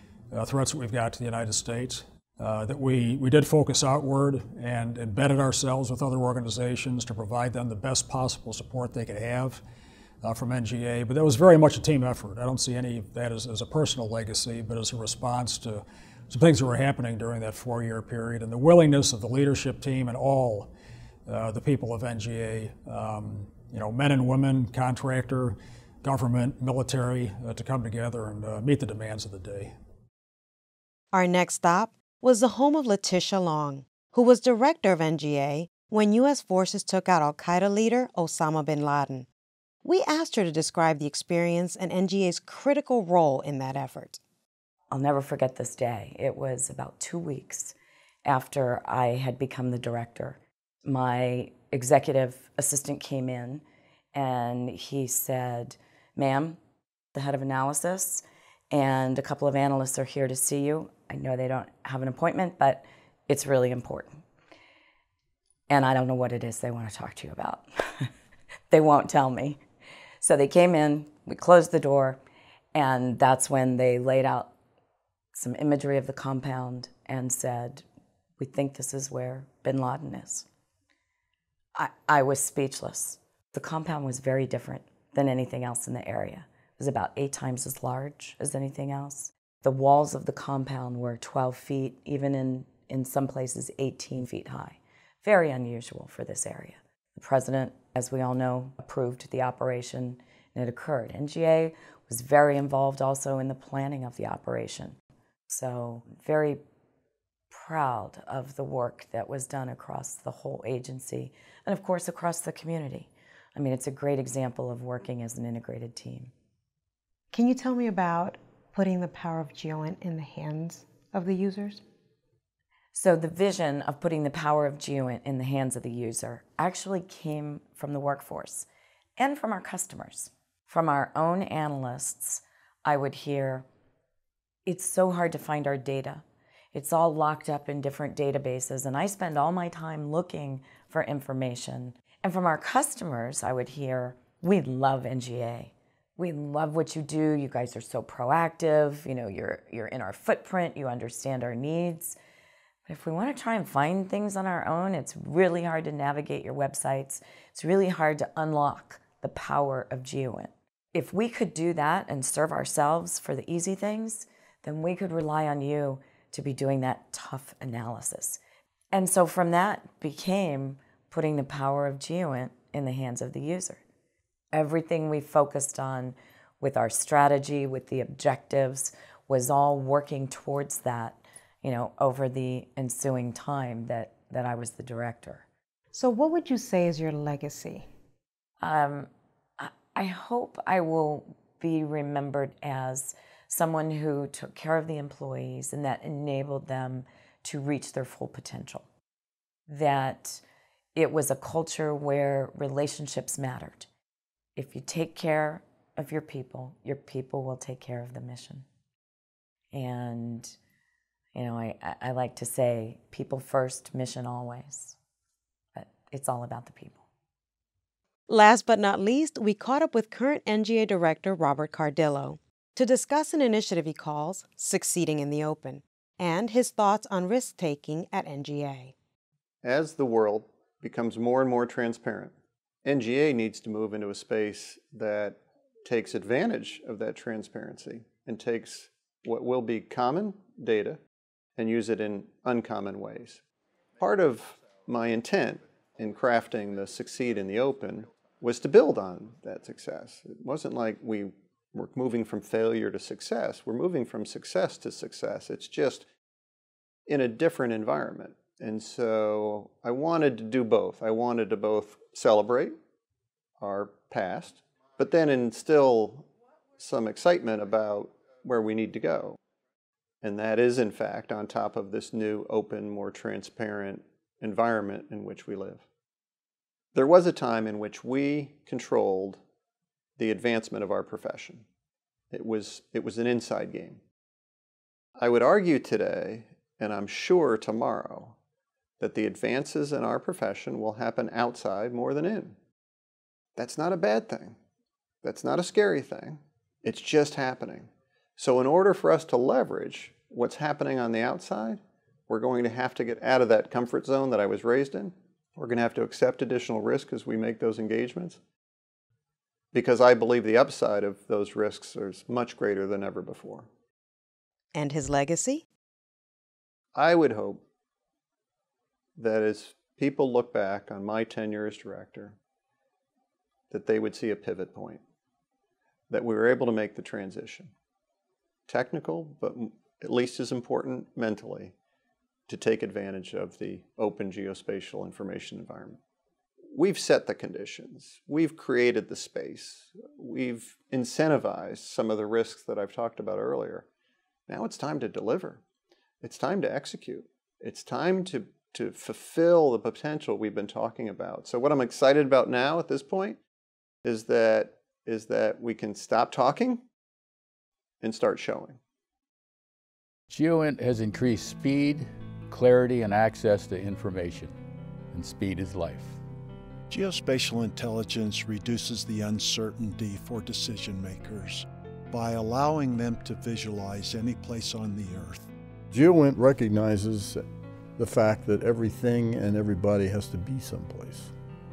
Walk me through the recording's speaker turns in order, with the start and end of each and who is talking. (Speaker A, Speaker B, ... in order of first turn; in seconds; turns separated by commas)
Speaker A: 0.3-9.6, Speaker A: 10.2-20.7, Speaker A: 21.3-29.7, Speaker B: 31.1-39.3, Speaker B: 39.8-44.2, Speaker C: 44.9-56.6, Speaker C: 57.1-64.2, Speaker C: 65.7-68.1, Speaker C: 68.7-69.6, Speaker C: 70.2-72.2, Speaker C: 72.7-74.5, Speaker C: 75.3-77.8, Speaker C: 78.4-80.5, Speaker C: 81.8-105.0, Speaker C: 105.5-106.6, Speaker C: 107.5-116.3, Speaker B: 117.3-121.8, Speaker C: 122.9-133.7, Speaker C: 134.7-152.2, Speaker C: 152.8-168.4, Speaker C: 168.9-173.8, Speaker C: 174.5-185.4, Speaker B: 185.9-187.8, Speaker C: 188.6-198.8, Speaker C: 199.7-200.4, Speaker C: 200.9-203.9, Speaker C: 204.6-208.7, Speaker C: 209.7-210.5, Speaker C: 211.3-215.0, Speaker C: 215.7-217.0, Speaker B: 218.3-228.9, Speaker D: 229.6-241.0, Speaker D: 241.6-243.4, Speaker D: 244.0-256.0, Speaker D: 257.1-262.7, Speaker D: 263.6-269.4, Speaker D: 270.2-275.8, Speaker D: 276.9-279.4, Speaker D: 280.2-281.6, Speaker D: 282.3-284.0, Speaker D: 285.2-288.4, Speaker D: 289.0-292.6, Speaker D: 293.6-294.6, Speaker D: 295.2-308.4, Speaker D: 309.7-313.7, Speaker B: 314.7-315.6, Speaker D: 316.9-317.6, Speaker D: 319.1-322.4, Speaker D: 323.7-325.0, Speaker D: 326.1-327.7, Speaker D: 328.7-331.7, Speaker D: 332.5-336.0, Speaker D: 336.7-343.9, Speaker D: 344.5-345.6, Speaker D: 346.2-353.4, Speaker D: 354.0-356.9, Speaker D: 358.0-358.8, Speaker E: 360.3-364.5, Speaker E: 365.1-366.2, Speaker F: 366.9-375.5, Speaker G: 375.9-377.4, Speaker G: 378.0-381.3